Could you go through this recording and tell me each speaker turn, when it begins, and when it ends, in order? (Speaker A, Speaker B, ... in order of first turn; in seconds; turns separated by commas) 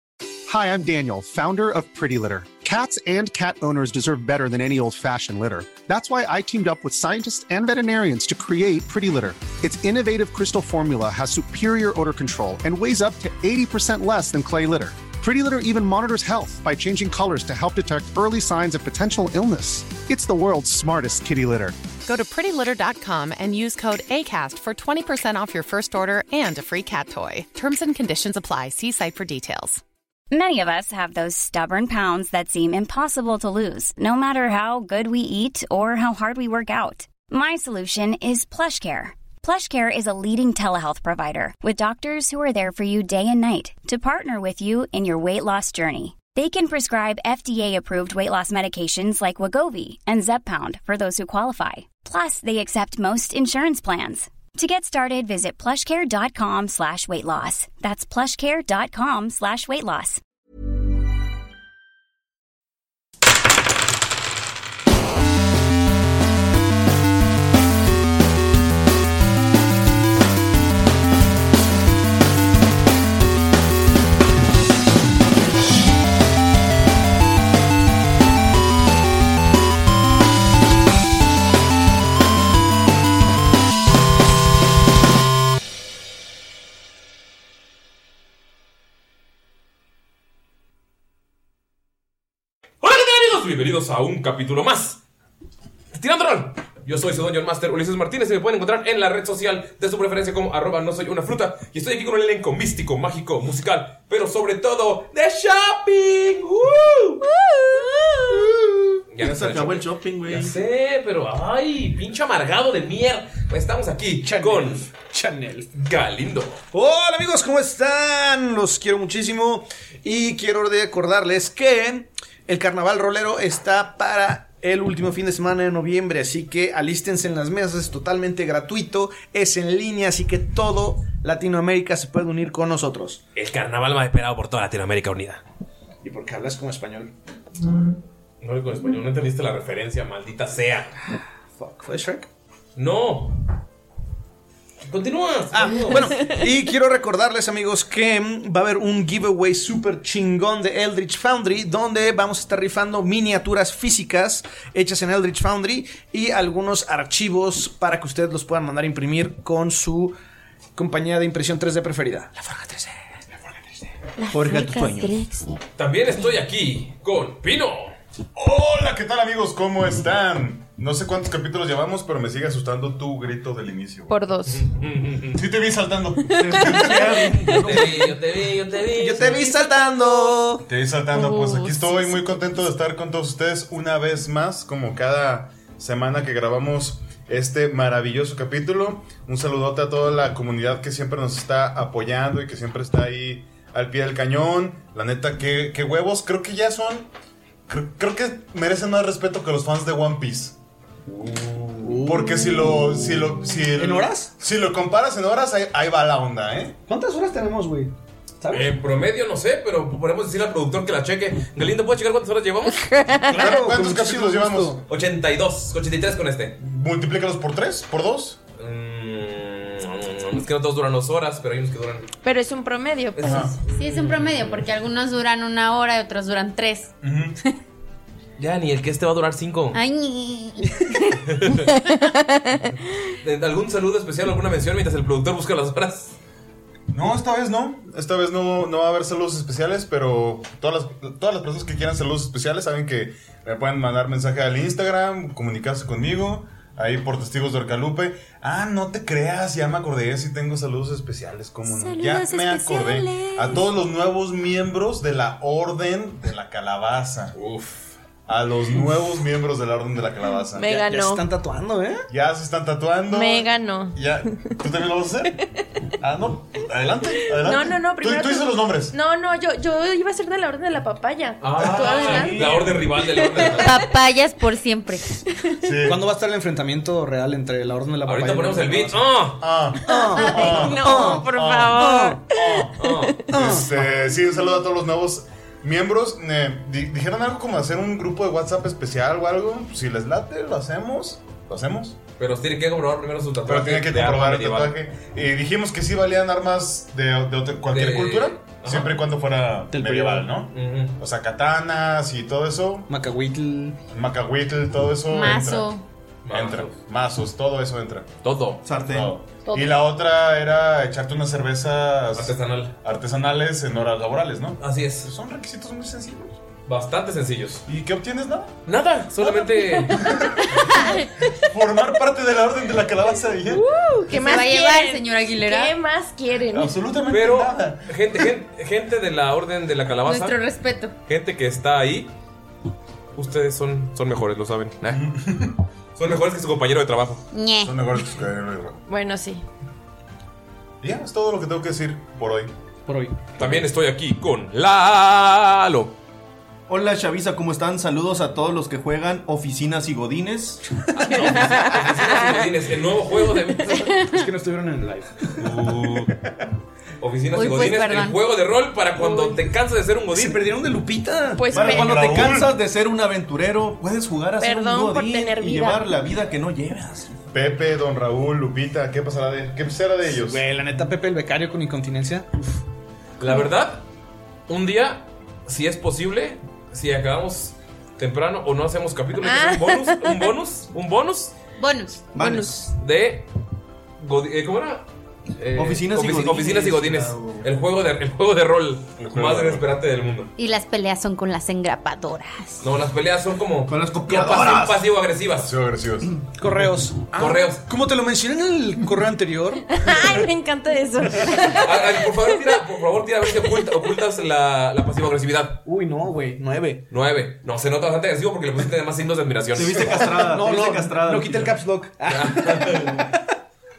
Speaker A: 0.5-21.8, Speaker B: 22.0-29.8, Speaker C: 30.3-60.2, Speaker D: 92.8-95.0, Speaker D: 95.9-107.2, Speaker D: 109.1-114.8, Speaker E: 109.2-110.6, Speaker F: 114.2-115.7, Speaker D: 115.7-116.6, Speaker F: 116.7-133.2, Speaker D: 133.3-135.4, Speaker F: 136.0-137.1, Speaker D: 138.4-141.2, Speaker F: 141.6-142.3, Speaker D: 142.8-143.4, Speaker D: 144.8-146.3, Speaker F: 145.5-160.1, Speaker F: 160.7-165.2, Speaker G: 164.2-165.6, Speaker D: 165.8-167.9, Speaker H: 168.3-174.2, Speaker G: 174.1-174.7, Speaker D: 174.5-175.4, Speaker H: 175.3-177.2, Speaker G: 176.3-177.7, Speaker E: 176.4-178.1, Speaker F: 176.8-178.1, Speaker D: 177.5-179.5, Speaker F: 178.8-180.7, Speaker G: 179.4-180.4, Speaker H: 180.7-197.1, Speaker G: 181.1-182.3, Speaker H: 197.7-200.6, Speaker D: 201.1-201.9, Speaker F: 201.8-204.3, Speaker H: 202.0-206.8, Speaker F: 206.9-208.7, Speaker D: 208.5-212.9, Speaker G: 212.8-213.2, Speaker H: 213.2-214.8, Speaker F: 213.3-214.8, Speaker D: 214.9-216.6, Speaker H: 216.6-218.4, Speaker D: 218.6-222.1, Speaker G: 222.2-223.5, Speaker D: 223.2-224.6, Speaker H: 223.2-223.5, Speaker I: 223.7-226.9, Speaker H: 227.0-227.4, Speaker D: 228.4-229.8, Speaker I: 229.7-231.2, Speaker D: 231.3-231.7, Speaker D: 233.2-236.2, Speaker H: 236.9-257.4, Speaker G: 251.7-253.6, Speaker D: 257.4-257.9, Speaker H: 258.3-260.7, Speaker G: 260.5-261.2, Speaker F: 260.7-262.1, Speaker H: 262.1-265.4, Speaker G: 263.1-264.0, Speaker H: 266.0-268.9, Speaker G: 267.3-273.8, Speaker D: 271.4-273.8, Speaker E: 271.9-272.6, Speaker I: 273.5-275.0, Speaker H: 275.6-276.0, Speaker F: 275.8-279.1, Speaker D: 278.0-279.4, Speaker H: 279.4-292.0, Speaker F: 279.9-282.2, Speaker G: 279.9-283.3, Speaker D: 282.8-283.2, Speaker F: 283.3-283.7, Speaker D: 292.2-294.8, Speaker H: 293.5-302.9, Speaker D: 297.7-299.0, Speaker F: 299.7-300.3, Speaker D: 300.5-300.9, Speaker F: 302.9-303.8, Speaker H: 303.9-305.7, Speaker I: 305.1-305.8, Speaker D: 306.2-306.8, Speaker H: 306.3-308.1, Speaker D: 308.2-308.6, Speaker E: 308.6-309.1, Speaker H: 308.8-316.4, Speaker G: 309.4-309.8, Speaker D: 312.1-312.7, Speaker D: 314.6-315.1, Speaker D: 316.6-317.6, Speaker H: 317.7-318.6, Speaker D: 318.6-320.2, Speaker G: 319.2-321.1, Speaker H: 321.4-323.6, Speaker G: 323.5-326.8, Speaker I: 324.1-325.7, Speaker H: 326.5-327.9, Speaker D: 327.1-330.4, Speaker I: 330.1-330.9, Speaker D: 331.1-332.1, Speaker D: 333.1-335.0, Speaker H: 334.9-335.6, Speaker D: 335.9-337.2, Speaker I: 337.3-337.8, Speaker H: 337.6-338.8, Speaker G: 338.9-339.4, Speaker H: 340.8-342.5, Speaker F: 342.9-343.2, Speaker D: 343.4-345.9, Speaker E: 346.7-350.6, Speaker G: 351.0-352.4, Speaker D: 351.0-353.9, Speaker G: 353.6-353.9, Speaker F: 353.7-355.7, Speaker D: 355.4-356.1, Speaker D: 357.0-360.4, Speaker I: 357.3-358.2, Speaker G: 359.0-359.4, Speaker F: 360.1-361.7, Speaker G: 361.3-362.2, Speaker H: 361.5-362.5, Speaker E: 361.6-367.2, Speaker G: 364.4-365.9, Speaker H: 367.3-370.4, Speaker F: 370.1-372.5, Speaker D: 373.2-373.8, Speaker D: 374.5-381.3, Speaker G: 379.2-380.3, Speaker I: 381.6-382.0, Speaker E: 382.1-382.7, Speaker G: 382.1-382.7, Speaker D: 382.8-383.3, Speaker D: 384.0-384.9, Speaker D: 385.4-390.3, Speaker E: 385.5-387.4, Speaker H: 389.0-389.7, Speaker I: 390.4-392.7, Speaker D: 392.6-395.5, Speaker E: 393.7-394.7, Speaker H: 394.1-394.8, Speaker H: 395.3-396.1, Speaker F: 396.4-399.9, Speaker D: 397.1-397.6, Speaker G: 399.8-402.2, Speaker D: 401.5-405.6, Speaker F: 405.6-406.8, Speaker D: 406.9-410.0, Speaker E: 409.5-411.5, Speaker F: 409.6-413.1, Speaker D: 412.1-413.1